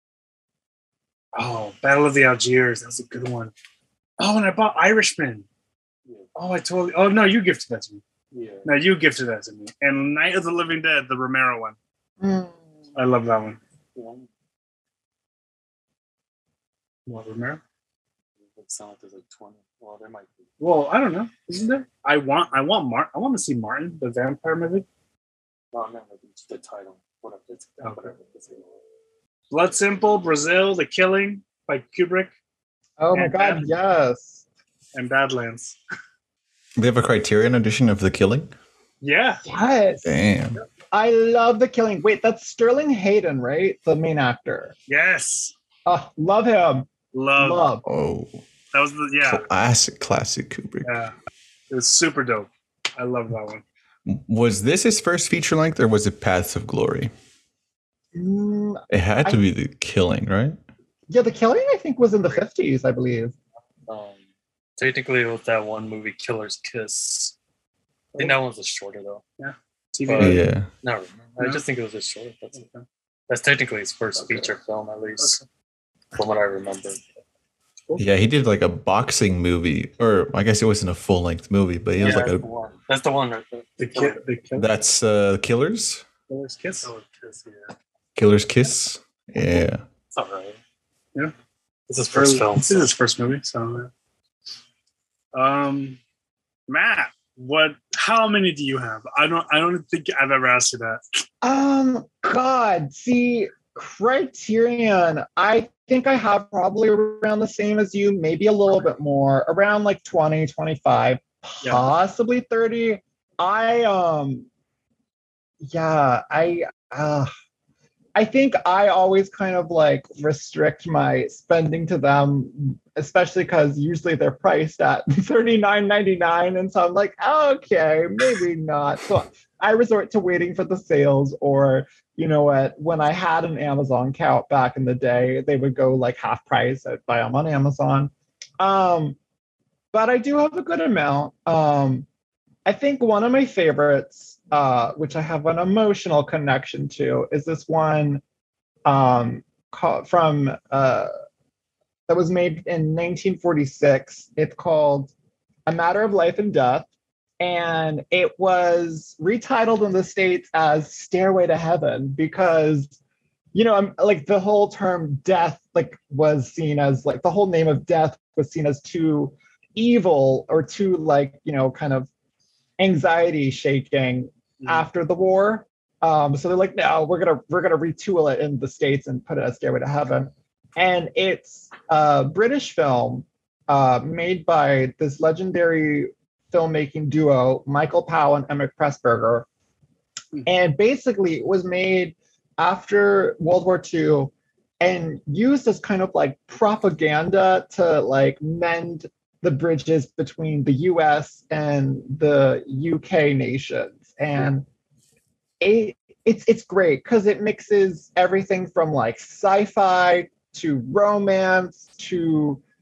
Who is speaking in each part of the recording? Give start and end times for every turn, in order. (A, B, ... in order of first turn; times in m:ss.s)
0:01.3-0:03.5 A
0:04.2-0:05.4 A
0:06.3-0:08.0 A
0:08.3-0:08.7 B
0:08.6-0:11.8 A
0:12.2-0:12.5 C
0:13.0-0:13.6 A
0:13.9-0:14.3 B
0:17.0-0:17.6 A
0:18.5-0:20.5 B
0:20.6-0:24.8 A
0:25.7-0:28.8 B
0:27.8-0:28.1 A
0:29.5-0:32.3 A
0:33.0-0:34.4 C
0:33.1-0:33.7 A
0:34.9-0:35.8 A
0:36.8-0:38.5 D
0:39.0-0:39.4 A
0:39.4-0:40.2 C
0:40.0-0:40.6 D
0:40.9-0:44.7 C
0:44.9-0:45.5 A
0:45.8-0:47.8 C
0:47.1-0:47.7 A
0:47.8-0:48.4 D
0:48.7-0:49.4 A
0:49.2-0:50.9 D
0:50.8-0:51.1 A
0:51.7-0:53.6 A
0:54.0-0:57.1 D
0:58.1-0:59.4 C
0:58.9-1:00.6 D
1:01.1-1:03.3 C
1:03.9-1:04.2 B
1:04.8-1:07.3 B
1:08.2-1:09.2 B
1:09.4-1:10.4 A
1:10.1-1:12.7 B
1:10.2-1:10.7 D
1:12.5-1:12.8 A
1:13.3-1:15.4 B
1:14.2-1:14.5 A
1:15.2-1:15.4 A
1:16.1-1:17.0 B
1:18.0-1:22.4 D
1:22.0-1:24.2 B
1:23.8-1:24.7 A
1:24.6-1:26.0 D
1:26.3-1:26.9 A
1:26.8-1:27.7 B
1:28.2-1:29.8 D
1:29.4-1:30.6 B
1:31.9-1:32.9 B
1:32.1-1:33.9 A
1:35.3-1:36.0 A
1:36.7-1:41.0 A
1:41.4-1:54.5 C
1:51.6-1:51.9 A
1:55.6-1:57.3 C
1:58.1-2:19.2 C
2:19.9-2:22.0 C
2:22.6-2:28.2 C
2:28.8-2:31.1 C
2:32.1-2:35.1 C
2:35.7-2:36.9 C
2:37.4-2:43.0 C
2:43.5-2:52.1 C
2:52.8-3:09.4 C
2:54.6-2:54.8 A
3:10.4-3:24.6 C
3:25.6-3:32.6 C